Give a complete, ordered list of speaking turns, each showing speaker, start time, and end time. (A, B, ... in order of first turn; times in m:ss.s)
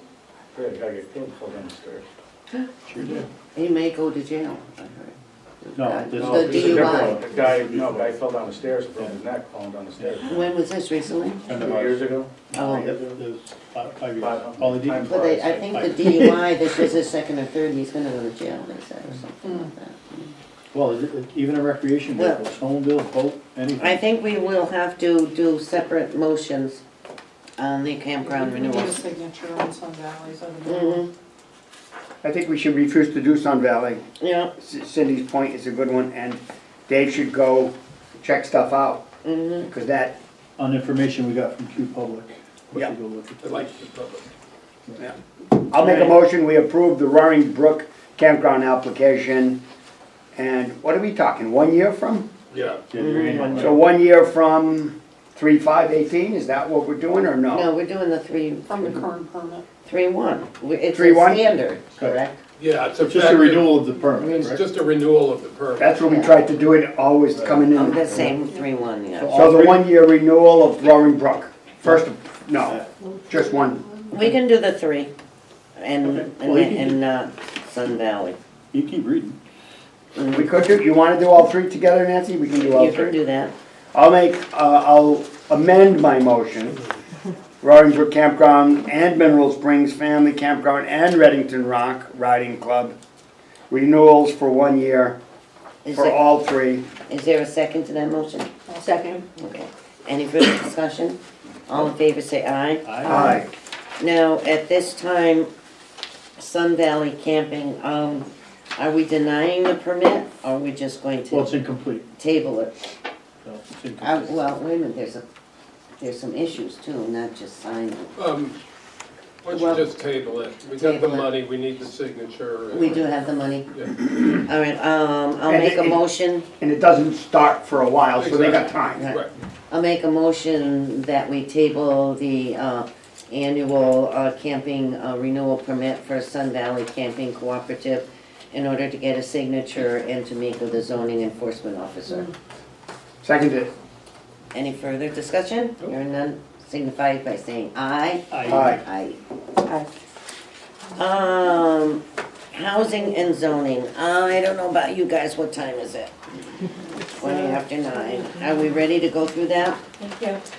0:00.6-0:02.1 A
0:02.9-0:03.3 B
0:03.6-0:07.2 C
0:05.8-0:08.2 B
0:06.2-0:10.5 A
0:10.0-0:10.3 B
0:10.2-0:11.4 C
0:11.5-0:16.9 B
0:11.5-0:13.2 A
0:12.5-0:12.9 C
0:14.2-0:15.8 A
0:15.0-0:20.4 C
0:19.4-0:19.7 D
0:20.7-0:24.0 B
0:22.2-0:22.4 C
0:23.8-0:26.8 C
0:27.6-0:29.1 C
0:28.2-0:31.1 D
0:30.7-0:31.1 C
0:32.2-0:34.0 E
0:34.2-0:34.5 C
0:34.6-0:39.0 E
0:39.2-0:39.7 C
0:39.6-0:40.2 E
0:40.6-0:43.8 B
0:43.4-0:44.3 F
0:45.7-0:49.6 E
0:45.8-0:46.1 B
0:50.4-0:52.3 E
0:52.5-0:52.8 F
0:52.9-0:53.8 B
0:53.0-0:53.7 C
0:53.5-0:57.7 E
0:57.5-0:59.0 C
0:58.6-0:59.6 D
0:59.8-1:02.4 C
1:00.9-1:01.6 E
1:02.6-1:06.0 F
1:03.0-1:04.6 B
1:05.8-1:08.2 E
1:06.0-1:06.4 C
1:07.7-1:09.4 C
1:08.4-1:08.7 D
1:09.2-1:09.9 B
1:09.3-1:13.8 E
1:14.1-1:15.1 C
1:15.8-1:18.4 C
1:16.0-1:17.0 B
1:18.7-1:19.4 B
1:20.2-1:20.5 C
1:20.3-1:23.2 E
1:22.7-1:23.5 C
1:23.9-1:26.8 E
1:27.6-1:33.0 E
1:33.7-1:35.2 E
1:35.8-1:36.2 C
1:35.9-1:36.9 E
1:37.1-1:38.5 C
1:38.7-1:39.0 D
1:39.4-1:43.4 C
1:42.8-1:43.4 B
1:43.0-1:43.5 E
1:44.0-1:45.5 C
1:46.4-1:51.6 C
1:51.3-1:52.1 B
1:52.2-1:52.9 C
1:53.4-1:54.4 B
1:54.0-1:55.2 C
1:56.0-1:58.1 C
1:58.2-1:58.6 F
1:59.4-2:03.9 F
1:59.5-1:59.9 C
2:00.8-2:01.3 C
2:02.7-2:03.7 C
2:04.2-2:06.5 C
2:05.5-2:06.0 E
2:06.6-2:09.1 E
2:08.2-2:09.3 F
2:09.0-2:22.3 C
2:23.2-2:23.7 E
2:24.5-2:29.2 C
2:28.3-2:28.7 B
2:28.5-2:28.8 E
2:31.0-2:36.1 C
2:37.2-2:39.8 C